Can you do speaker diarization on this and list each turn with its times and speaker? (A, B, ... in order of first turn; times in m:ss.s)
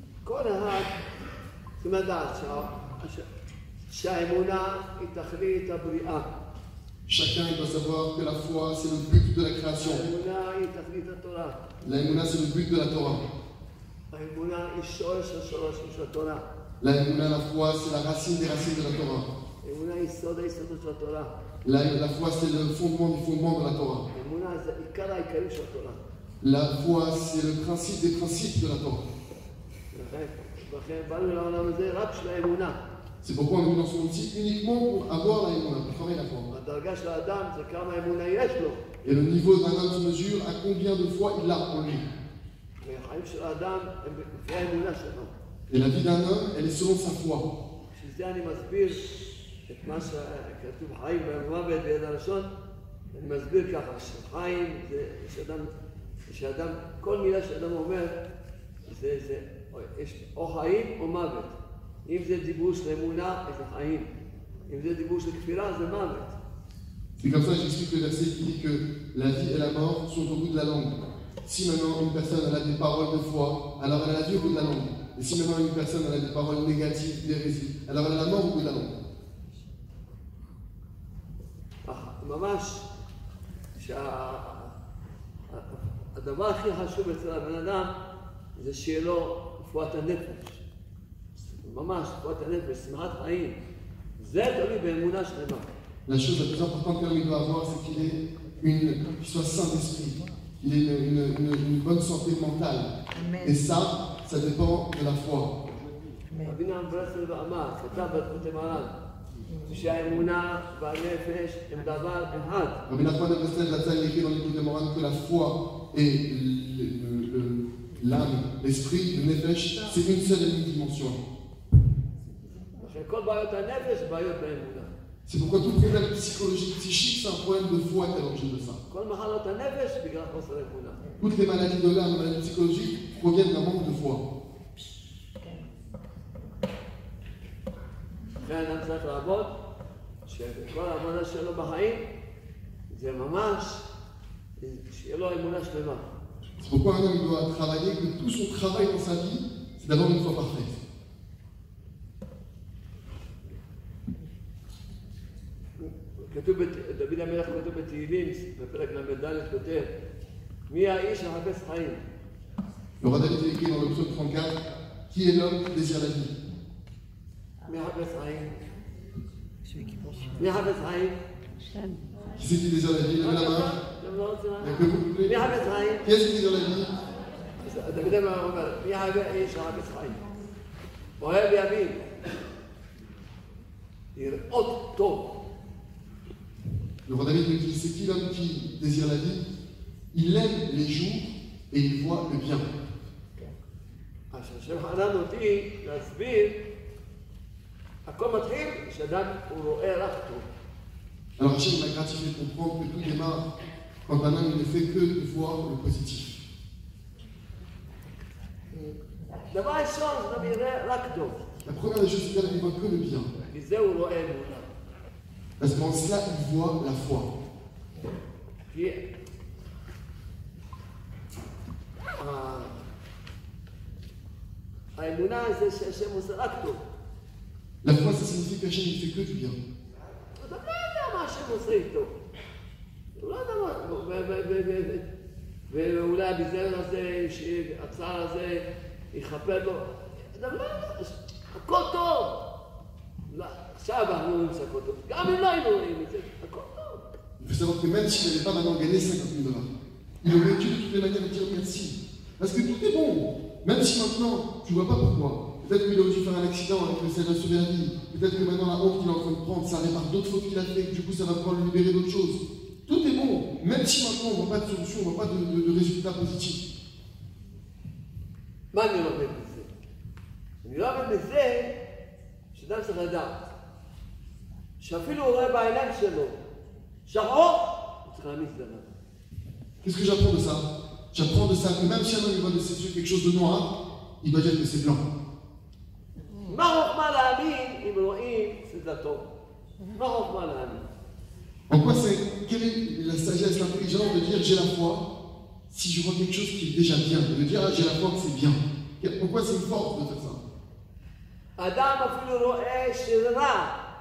0:00.2-0:01.0 A
0:01.8-0:03.2 A
0:03.9-0:06.3 A
0:07.1-0:10.0 B
0:09.8-0:11.6 A
0:11.8-0:13.2 B
0:14.1-0:16.5 A
0:16.8-0:19.3 B
0:19.6-0:21.3 A
0:21.6-0:24.1 B
0:24.1-0:26.0 A
0:26.4-0:29.0 B
0:29.9-0:32.8 A
0:33.2-0:36.5 B
0:36.5-0:38.8 A
0:39.0-0:42.1 B
0:42.8-0:45.3 A
0:45.7-0:47.5 B
0:47.9-0:49.1 A
0:49.7-0:52.5 A
0:53.1-0:55.7 A
0:56.3-0:58.2 A
0:58.9-1:04.1 A
1:04.7-1:06.4 A
1:07.2-1:18.9 B
1:21.8-1:22.9 A
1:23.8-1:24.8 A
1:25.5-1:27.9 A
1:28.6-1:30.6 A
1:31.4-1:33.6 A
1:34.2-1:35.7 A
1:36.1-1:45.5 B
1:46.4-1:49.0 A
1:49.6-1:52.8 A
1:52.9-2:01.2 B
2:02.8-2:04.9 A
2:05.2-2:08.8 B
2:08.9-2:11.0 A
2:11.2-2:14.2 B
2:18.4-2:19.5 A
2:20.2-2:22.0 A
2:22.9-2:23.9 A
2:24.6-2:26.1 A
2:26.6-2:30.8 B
2:35.8-2:39.9 A
2:40.7-2:42.0 A
2:43.0-2:44.6 B
2:45.1-2:46.4 B
2:47.7-2:48.6 A
2:50.4-2:51.2 A
2:52.4-2:53.7 B
2:53.2-2:56.1 A
2:54.6-2:55.4 B
2:56.0-2:56.9 B
2:57.6-3:00.2 A
3:01.2-3:02.0 A
3:04.2-3:05.3 A
3:07.1-3:09.5 B
3:10.1-3:12.7 B
3:14.3-3:16.6 A
3:18.1-3:20.5 A
3:21.4-3:23.5 B
3:24.1-3:26.4 B
3:29.5-3:31.4 A
3:31.6-3:33.3 B
3:33.4-3:34.7 A
3:35.6-3:37.3 B
3:38.7-3:39.0 A
3:42.2-3:42.8 A
3:44.9-3:46.8 A
3:47.8-3:49.6 B
3:50.4-3:52.2 A
3:53.2-3:55.0 A
3:55.7-4:02.4 A
4:03.3-4:07.0 A
4:07.4-4:09.7 B
4:10.2-4:26.7 B
4:28.7-4:29.7 A
4:30.6-4:31.8 A
4:32.5-4:33.5 A
4:34.8-4:36.4 A
4:37.1-4:38.9 A
4:39.8-4:43.7 B
4:44.2-4:45.0 B
4:46.4-4:49.2 A
4:49.9-4:50.8 A
4:51.7-4:55.0 B
4:55.7-5:00.4 B
5:01.6-5:03.8 A